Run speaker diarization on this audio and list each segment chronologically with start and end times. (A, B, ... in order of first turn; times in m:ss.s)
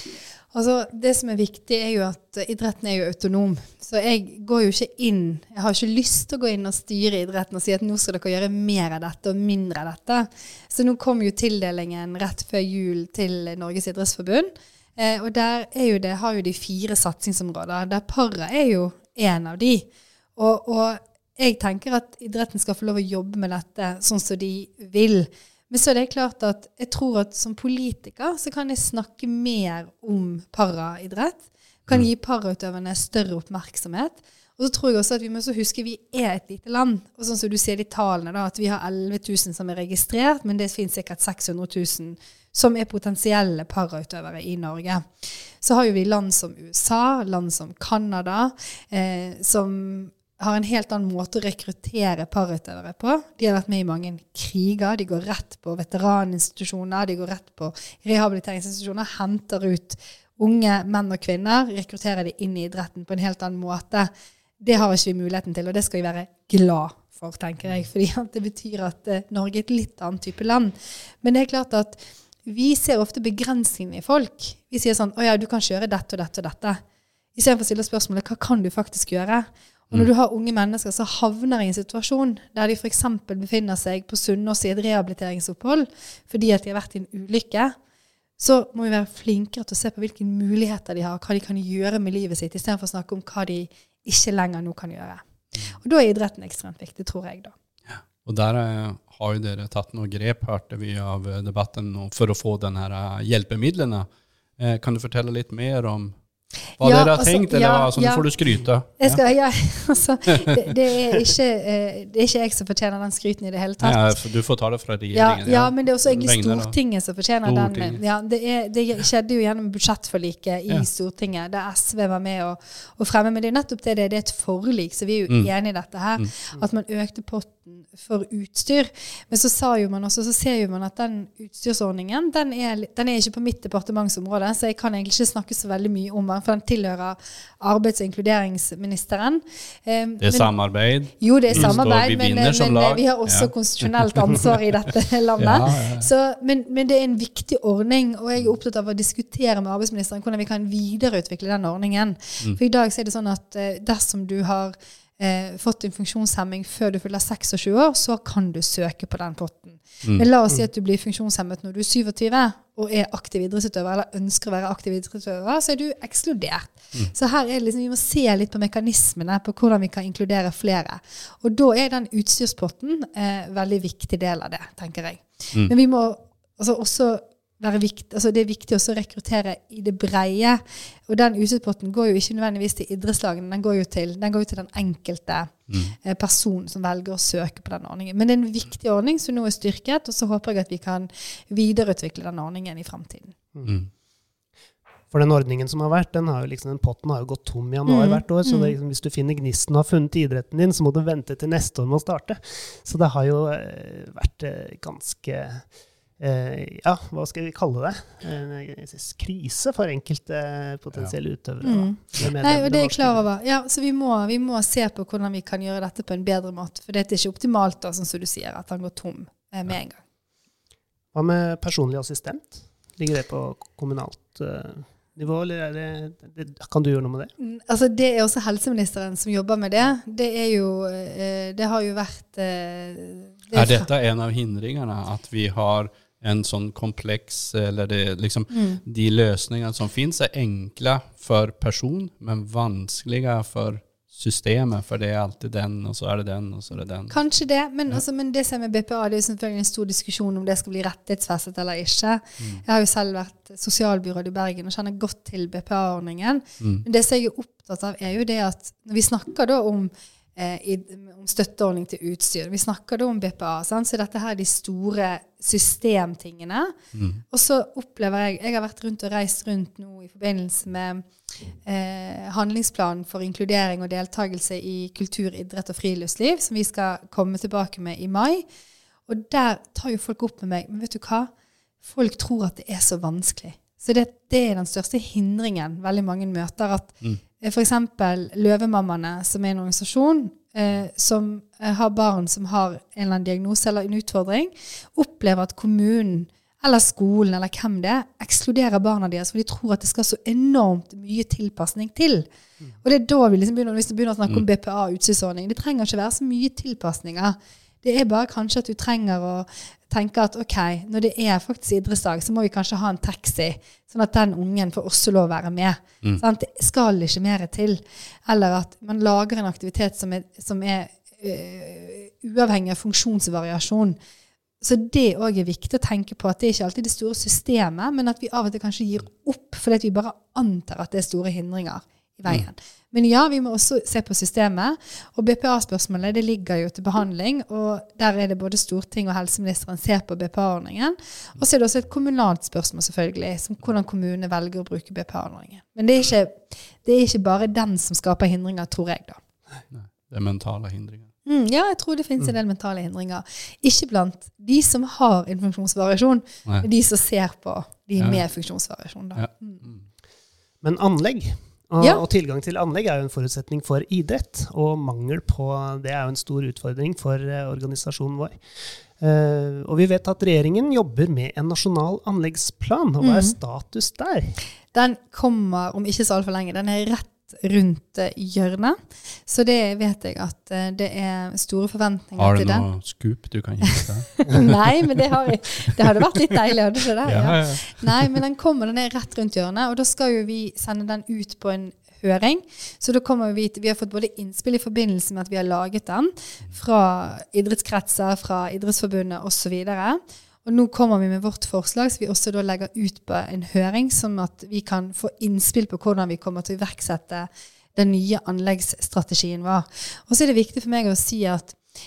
0:00.5-1:04.1 A
1:04.6-1:16.8 A
1:17.3-1:27.7 A
1:28.4-1:37.5 A
1:37.9-1:46.2 B
1:46.8-1:49.2 B
1:46.8-1:54.2 A
1:53.8-1:56.8 B
1:55.1-3:13.4 A
1:57.4-1:58.0 B
2:20.2-2:24.6 B
2:25.4-2:26.1 B
2:40.0-2:40.3 B
3:05.7-3:05.9 B
3:13.5-3:13.8 C
3:15.1-3:25.7 C
3:17.9-3:18.7 A
3:26.2-3:33.2 C
3:31.6-3:40.0 A
3:41.1-3:47.3 C
3:47.4-3:53.9 A
3:53.5-4:07.2 B
3:58.5-3:58.8 A
4:07.1-4:26.7 A
4:16.6-4:16.8 B
4:26.9-4:27.2 B
4:27.3-4:31.0 A
4:31.6-4:38.4 A
4:39.1-4:41.3 A
4:41.8-5:02.3 A
5:02.8-5:24.0 A
5:24.6-5:49.2 A
5:49.7-5:51.1 B
5:51.2-5:59.6 A
5:58.0-5:58.2 B
5:59.1-5:59.8 B
6:00.6-6:08.4 C
6:09.0-6:14.4 C
6:13.0-6:13.3 A
6:14.7-6:22.7 A
6:22.2-6:25.0 B
6:23.8-6:51.6 A
6:27.0-6:28.2 B